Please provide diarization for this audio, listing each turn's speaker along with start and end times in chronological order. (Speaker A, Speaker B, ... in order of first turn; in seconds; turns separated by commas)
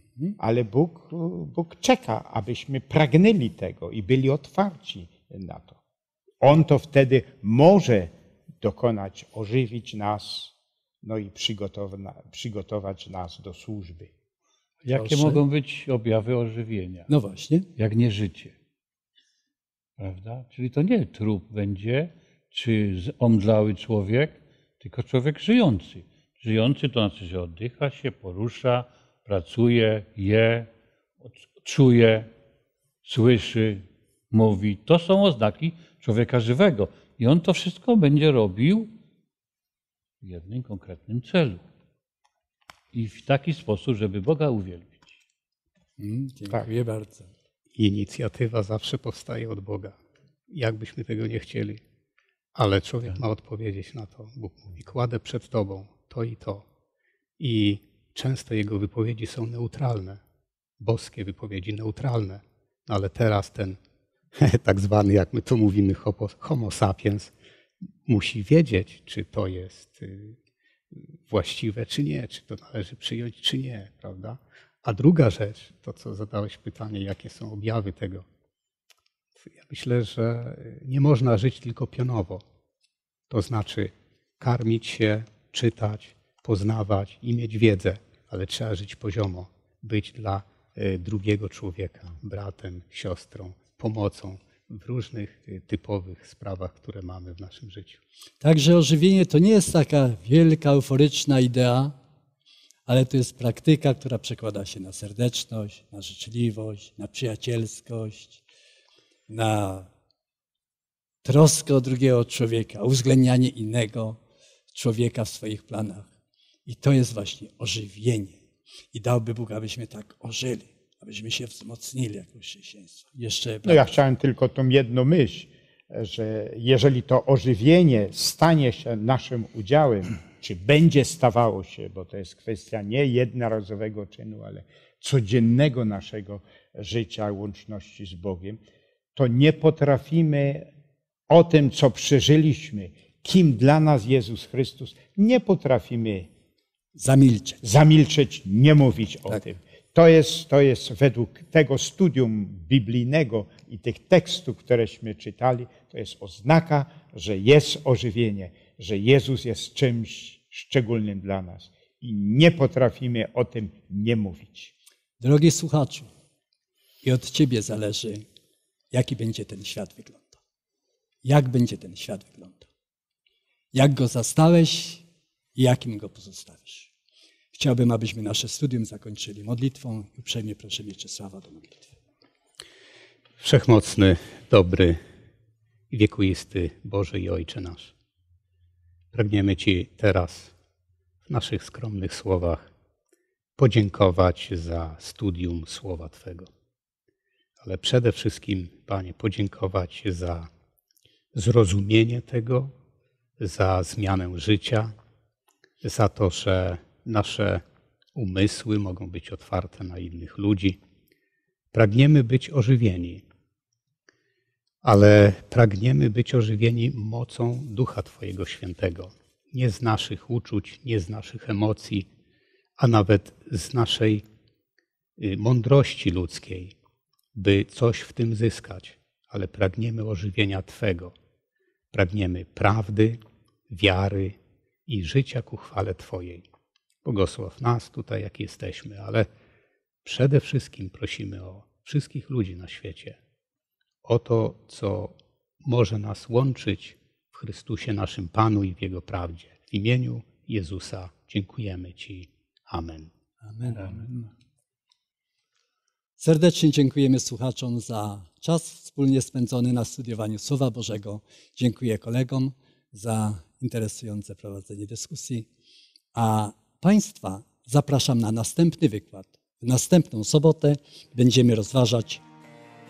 Speaker A: 0.4-5.8, Speaker A: 6.4-10.5, Speaker A: 11.0-14.1, Speaker B: 14.8-17.1, Speaker C: 14.9-15.4, Speaker C: 17.1-17.7, Speaker B: 17.8-18.5, Speaker B: 20.0-30.7, Speaker B: 31.2-32.3, Speaker B: 33.0-38.9, Speaker B: 40.2-41.6, Speaker B: 42.9-45.1, Speaker C: 46.0-47.3, Speaker D: 47.7-50.0, Speaker D: 50.5-51.8, Speaker D: 52.5-56.6, Speaker D: 57.4-60.2, Speaker D: 60.8-63.8, Speaker D: 64.4-67.3, Speaker D: 68.0-70.4, Speaker D: 70.9-78.2, Speaker D: 79.4-82.4, Speaker D: 83.3-98.0, Speaker C: 98.4-101.9, Speaker C: 102.8-108.4, Speaker C: 109.3-109.9, Speaker C: 111.2-114.2, Speaker C: 114.7-116.1, Speaker C: 116.7-118.4, Speaker C: 118.9-123.8, Speaker A: 123.6-138.6, Speaker A: 139.2-140.7, Speaker A: 141.3-146.3, Speaker C: 146.9-147.6, Speaker A: 147.6-164.7, Speaker C: 165.2-166.1, Speaker C: 167.0-168.2, Speaker C: 168.9-170.4, Speaker C: 171.2-172.7, Speaker C: 173.7-175.0, Speaker C: 175.5-176.9, Speaker C: 177.5-181.9, Speaker D: 183.4-185.0, Speaker D: 185.9-187.9, Speaker D: 189.1-190.5, Speaker D: 191.3-192.7, Speaker D: 193.6-196.5, Speaker D: 197.6-200.5, Speaker D: 201.3-202.7, Speaker D: 203.4-204.9, Speaker D: 205.8-207.6, Speaker D: 208.1-210.8, Speaker D: 211.7-213.2, Speaker D: 214.8-222.1, Speaker D: 222.8-224.2, Speaker D: 225.2-226.7, Speaker D: 227.3-231.1, Speaker D: 231.9-236.4, Speaker D: 237.0-239.3, Speaker D: 240.0-243.2, Speaker D: 244.0-253.1, Speaker C: 253.4-254.2, Speaker C: 256.2-265.5, Speaker C: 266.1-272.2